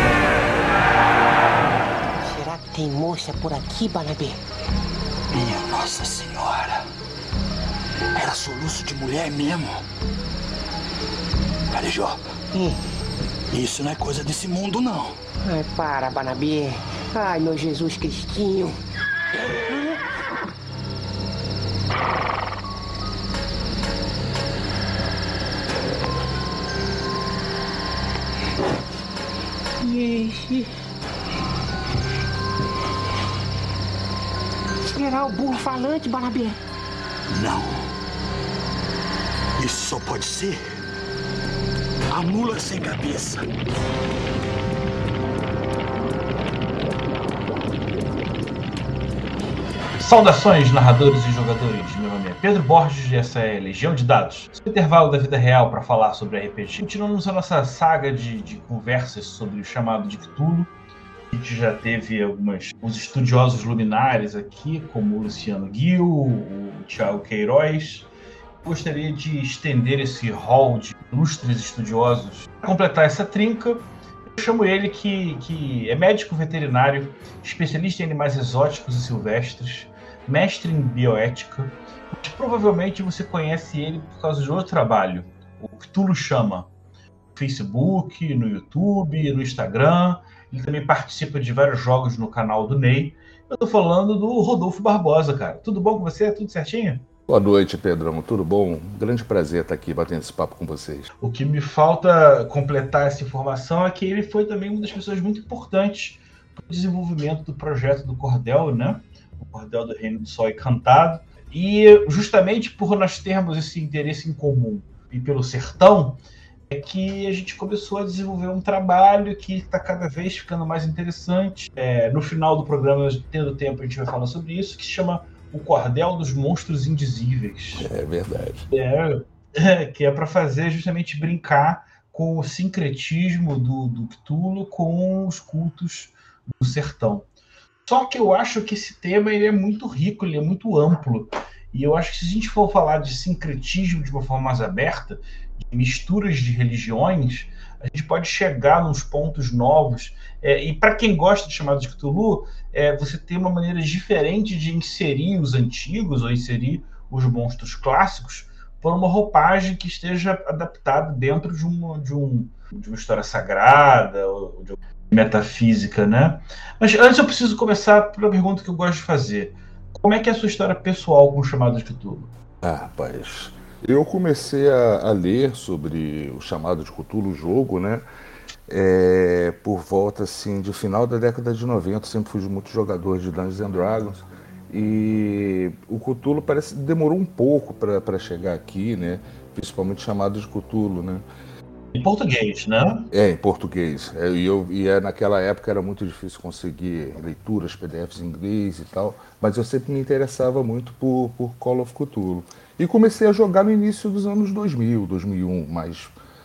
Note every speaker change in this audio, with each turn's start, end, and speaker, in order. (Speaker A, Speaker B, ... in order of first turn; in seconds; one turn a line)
Speaker A: 2.2-4.4
Speaker B: 5.3-6.8
Speaker B: 8.2-9.8
Speaker B: 11.7-12.2
Speaker B: 13.5-15.2
Speaker A: 15.4-18.8
Speaker A: 19.7-19.9
Speaker A: 29.8-30.7
Speaker A: 34.9-36.6
Speaker B: 37.3-37.8
Speaker B: 39.6-40.7
Speaker B: 42.1-43.5
Speaker C: 50.0-60.7
Speaker C: 61.3-68.1
Speaker C: 68.6-86.7
Speaker C: 87.3-97.0
Speaker D: 97.3-101.1
Speaker C: 101.2-127.9
Speaker D: 127.8-128.7
Speaker C: 128.7-137.3
Speaker C: 137.9-172.3
Speaker D: 172.6-178.1
Speaker D: 178.7-191.2
Speaker C: 191.9-193.1
Speaker D: 193.1-206.1